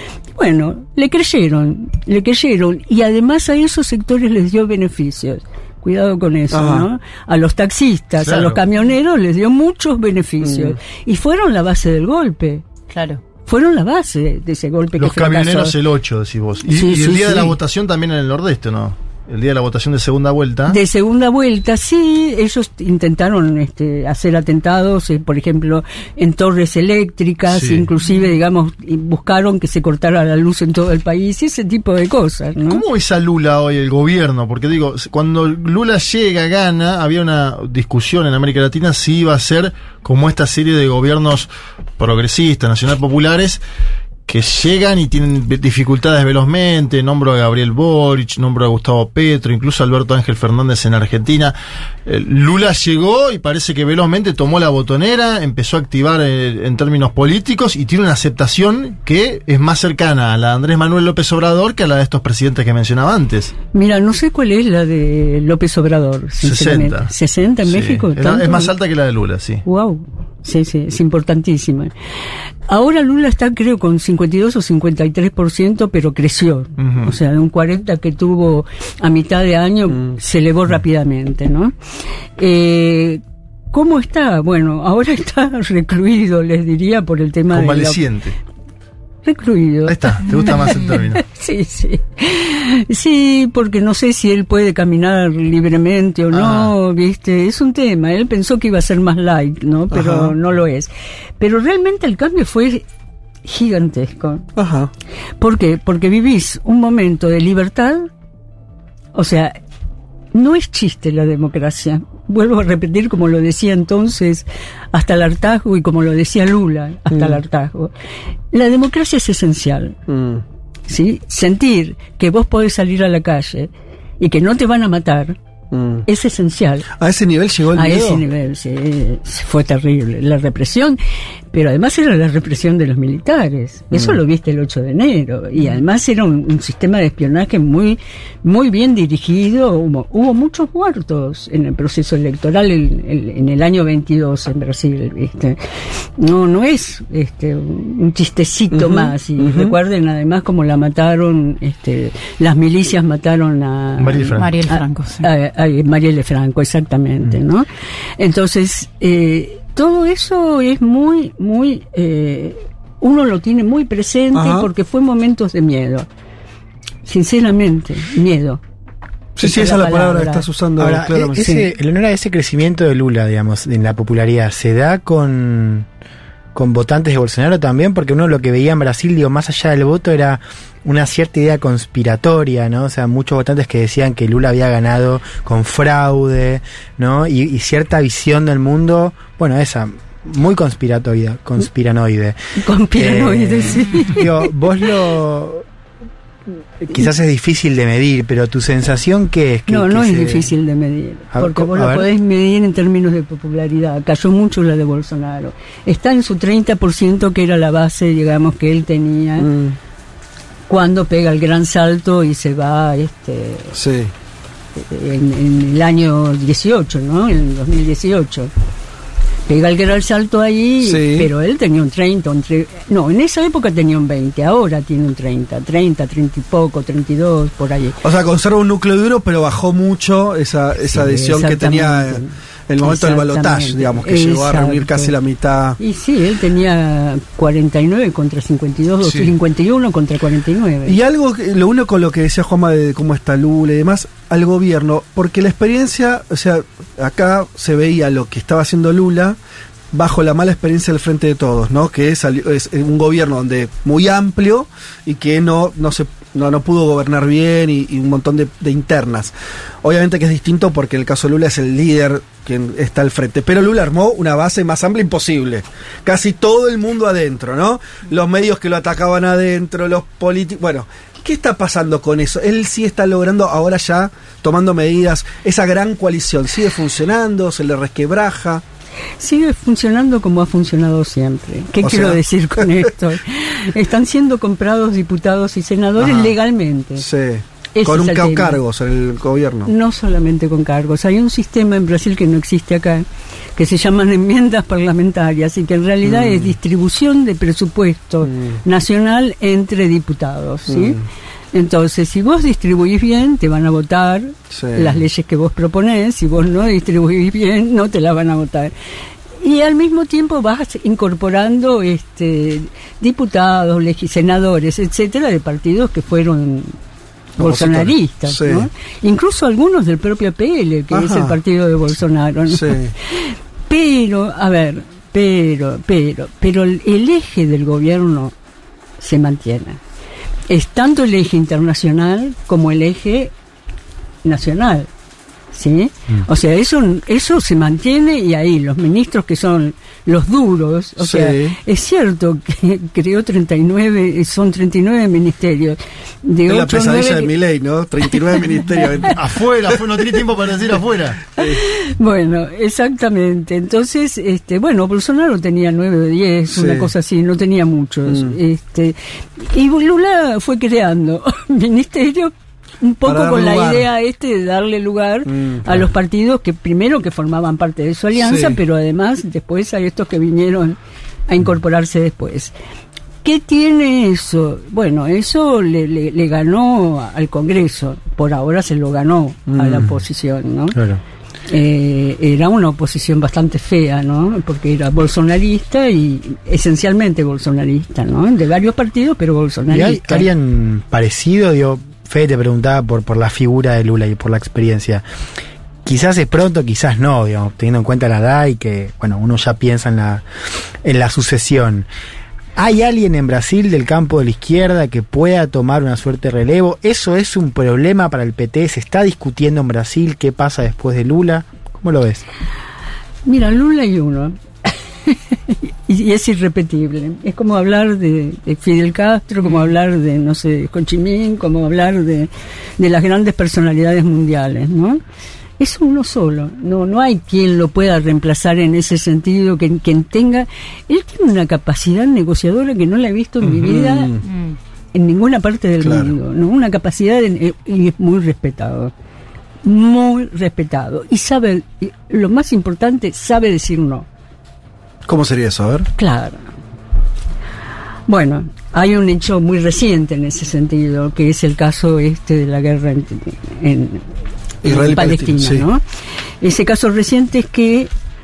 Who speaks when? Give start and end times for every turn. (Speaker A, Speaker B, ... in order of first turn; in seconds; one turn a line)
Speaker A: 0.4-12.7
Speaker B: 6.5-6.9
Speaker C: 8.2-8.6
Speaker B: 10.4-10.8
Speaker D: 12.9-13.2
Speaker A: 13.4-15.8
Speaker C: 15.0-20.8
Speaker A: 16.7-17.6
Speaker A: 20.7-32.8
Speaker C: 27.5-27.9
Speaker C: 32.7-43.6
Speaker C: 44.3-51.5
Speaker C: 52.1-63.5
Speaker A: 63.7-68.7
Speaker C: 66.4-67.1
Speaker C: 67.7-69.6
Speaker A: 69.7-71.9
Speaker A: 72.7-81.7
Speaker C: 76.8-77.2
Speaker A: 82.4-83.2
Speaker A: 83.7-88.0
Speaker C: 87.5-88.4
Speaker A: 89.2-102.8
Speaker C: 89.9-91.2
Speaker D: 90.3-91.0
Speaker C: 96.3-96.7
Speaker B: 99.9-100.4
Speaker A: 103.4-104.5
Speaker B: 104.6-104.9
Speaker A: 105.4-108.1
Speaker A: 109.2-109.6
Speaker A: 110.3-117.9
Speaker B: 117.1-117.4
Speaker A: 118.5-120.0
Speaker B: 120.1-120.4
Speaker A: 120.9-125.4
Speaker B: 125.7-126.0
Speaker A: 126.1-126.9
Speaker B: 127.0-128.2
Speaker A: 127.7-131.0
Speaker A: 131.5-145.6
Speaker B: 133.9-134.2
Speaker A: 146.2-157.7
Speaker B: 148.7-149.7
Speaker C: 154.0-154.5
Speaker D: 154.3-155.3
Speaker A: 158.2-166.1
Speaker B: 164.3-164.7
Speaker A: 167.1-168.6
Speaker B: 169.4-171.4
Speaker A: 169.4-170.5
Speaker E: 170.8-175.9
Speaker A: 171.3-171.7
Speaker E: 176.5-195.7
Speaker A: 192.6-194.5
Speaker E: 196.8-200.5
Speaker A: 199.7-209.5
Speaker E: 201.3-202.1
Speaker B: 209.4-209.8
Speaker A: 210.7-213.8
Speaker B: 213.8-214.1
Speaker A: 214.8-218.5
Speaker A: 219.5-228.0
Speaker B: 220.8-221.3
Speaker B: 228.0-235.8
Speaker A: 230.8-235.2
Speaker A: 235.8-241.0
Speaker B: 240.9-249.4
Speaker B: 249.9-278.6
Speaker A: 279.2-287.1
Speaker B: 281.8-282.9
Speaker B: 286.0-286.3
Speaker B: 287.0-289.7
Speaker A: 287.7-288.6
Speaker A: 289.7-301.0
Speaker B: 296.0-296.5
Speaker B: 298.3-298.6
Speaker B: 300.7-301.1
Speaker A: 301.5-308.7
Speaker B: 304.5-305.0
Speaker A: 309.4-316.8
Speaker A: 317.4-328.3
Speaker B: 317.4-318.7
Speaker B: 320.9-321.4
Speaker B: 322.5-322.9
Speaker A: 329.0-329.8
Speaker A: 330.5-333.3
Speaker A: 334.2-334.9
Speaker A: 335.5-347.3
Speaker B: 341.0-341.6
Speaker B: 346.5-349.2
Speaker A: 348.1-348.8
Speaker C: 349.1-351.3
Speaker B: 351.4-351.6
Speaker A: 351.4-372.5
Speaker B: 356.5-356.9
Speaker B: 358.1-358.4
Speaker B: 363.1-363.9
Speaker B: 365.3-365.9
Speaker B: 368.2-368.6
Speaker A: 373.2-380.8
Speaker B: 379.5-379.9
Speaker E: 380.7-381.0
Speaker A: 381.5-390.3
Speaker E: 389.7-395.1
Speaker E: 395.9-400.2
Speaker E: 400.8-401.9
Speaker E: 402.6-412.2
Speaker A: 413.3-425.0
Speaker A: 425.6-434.2
Speaker B: 433.5-434.2
Speaker D: 434.2-434.6
Speaker A: 434.9-438.9
Speaker B: 435.8-436.1
Speaker A: 439.6-444.1
Speaker B: 445.1-445.9
Speaker A: 446.0-446.5
Speaker A: 448.1-454.1
Speaker B: 454.6-455.6
Speaker A: 454.6-455.8
Speaker A: 456.4-457.9